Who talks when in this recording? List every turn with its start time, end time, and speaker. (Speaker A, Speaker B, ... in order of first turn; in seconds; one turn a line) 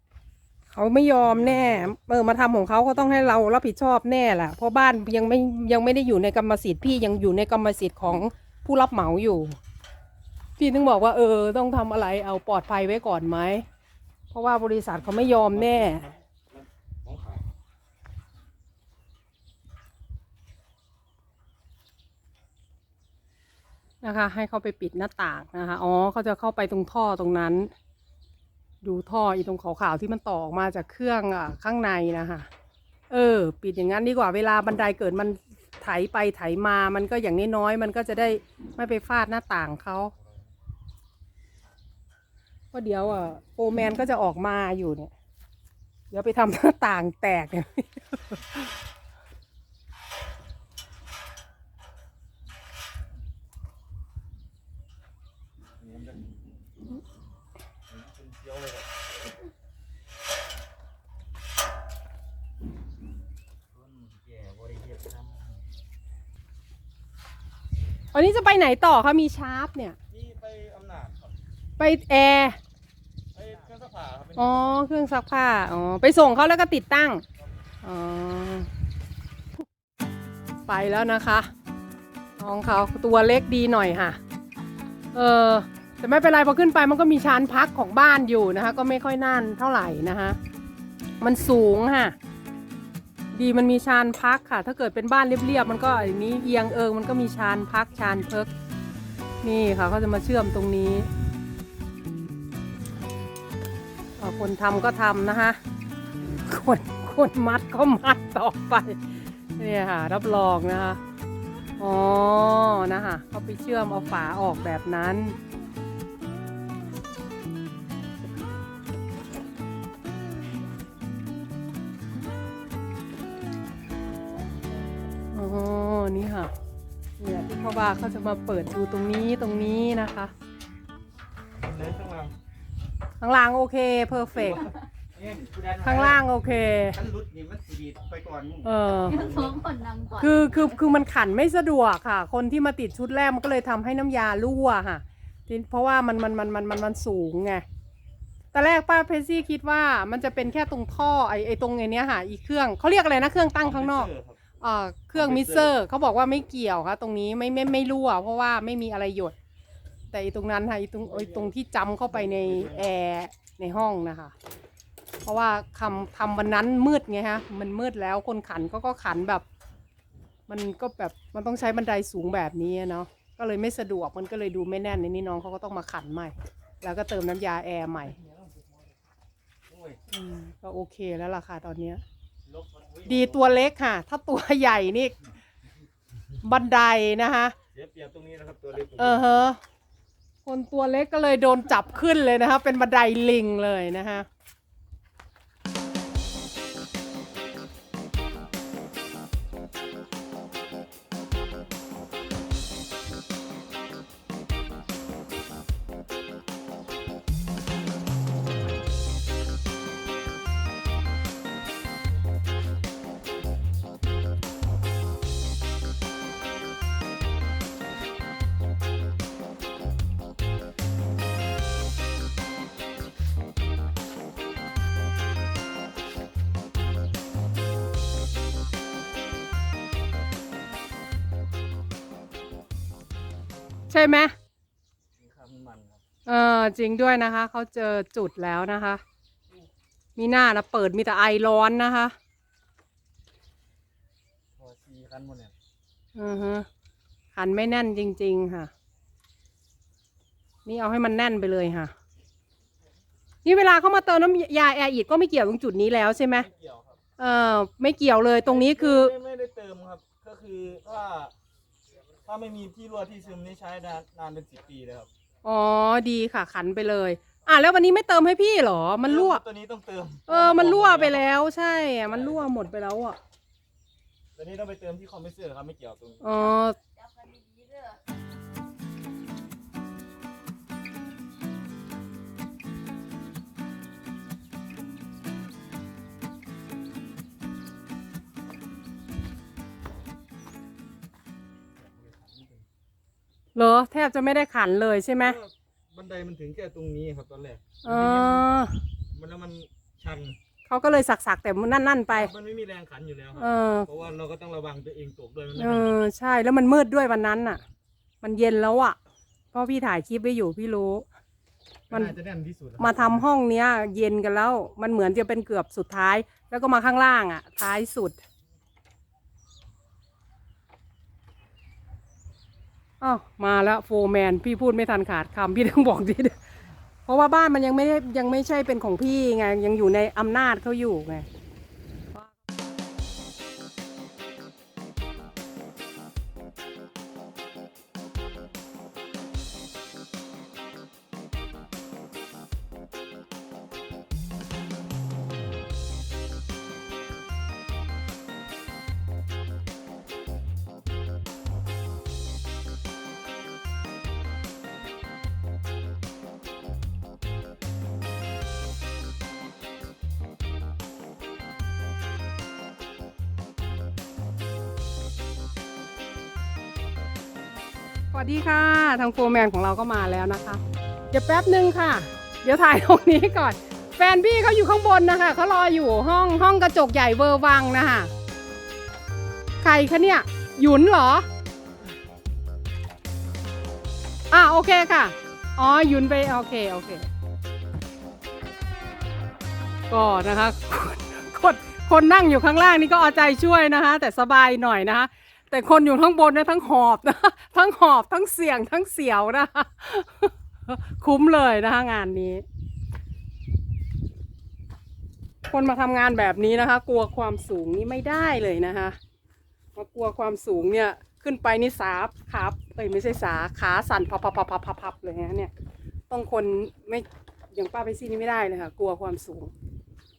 Speaker A: 0.7-9.6
Speaker A: 10.6-13.7
Speaker A: 14.3-16.1
Speaker B: 15.1-17.4
Speaker A: 24.0-27.7
Speaker A: 28.8-32.5
Speaker A: 33.1-40.1
Speaker A: 42.7-45.1
Speaker A: 46.1-48.4
Speaker B: 55.8-56.3
Speaker B: 57.9-58.9
Speaker B: 63.7-65.7
Speaker A: 68.1-70.0
Speaker B: 70.1-71.4
Speaker A: 71.8-72.6
Speaker B: 73.3-74.8
Speaker A: 74.4-77.2
Speaker A: 77.8-78.7
Speaker A: 80.7-81.5
Speaker A: 82.4-84.2
Speaker A: 85.1-90.4
Speaker A: 91.2-92.2
Speaker A: 93.3-98.5
Speaker A: 99.4-101.1
Speaker A: 104.2-105.6
Speaker A: 106.5-109.0
Speaker A: 109.6-111.0
Speaker A: 111.8-115.4
Speaker A: 125.3-126.5
Speaker A: 127.2-130.3
Speaker B: 131.6-132.3
Speaker A: 133.2-134.7
Speaker B: 134.4-139.6
Speaker A: 135.8-137.0
Speaker A: 138.6-139.3
Speaker C: 139.1-141.0
Speaker A: 140.2-147.7
Speaker A: 148.5-159.3
Speaker B: 153.6-154.4
Speaker B: 155.1-155.8
Speaker A: 160.1-164.3
Speaker B: 161.1-161.5
Speaker B: 162.1-162.9
Speaker A: 165.2-169.4
Speaker A: 170.5-178.2
Speaker B: 178.1-178.9
Speaker B: 179.7-180.0
Speaker A: 180.1-182.0
Speaker B: 182.4-183.5
Speaker A: 183.1-185.2
Speaker A: 186.4-187.6
Speaker B: 187.7-189.2
Speaker A: 189.0-189.6
Speaker A: 190.5-194.3
Speaker A: 233.9-234.3
Speaker B: 235.2-236.0
Speaker A: 236.3-239.0
Speaker A: 240.2-242.2
Speaker B: 244.6-245.5
Speaker A: 246.2-246.7
Speaker A: 247.3-248.7
Speaker A: 250.7-251.9
Speaker A: 253.4-256.5
Speaker B: 256.4-257.0
Speaker A: 257.2-259.1
Speaker B: 258.4-261.3
Speaker B: 262.2-265.1
Speaker A: 265.4-269.4
Speaker B: 269.0-271.3
Speaker A: 270.3-273.2
Speaker B: 272.1-272.5
Speaker B: 274.4-276.2
Speaker A: 276.2-276.8
Speaker C: 276.8-278.0
Speaker B: 291.8-292.7
Speaker A: 293.6-295.4
Speaker B: 295.2-298.5
Speaker A: 297.8-298.7
Speaker B: 299.1-300.4
Speaker A: 300.7-302.3
Speaker B: 302.1-305.9
Speaker A: 303.4-303.9
Speaker A: 305.6-307.6
Speaker A: 308.2-309.0
Speaker A: 309.5-311.1
Speaker B: 311.9-313.2
Speaker A: 312.8-318.2
Speaker A: 323.0-326.4
Speaker A: 327.1-331.3
Speaker A: 368.1-378.1
Speaker A: 379.6-381.3
Speaker A: 384.3-387.1
Speaker A: 389.9-402.4
Speaker A: 405.5-409.0
Speaker A: 409.8-415.5
Speaker A: 416.1-419.5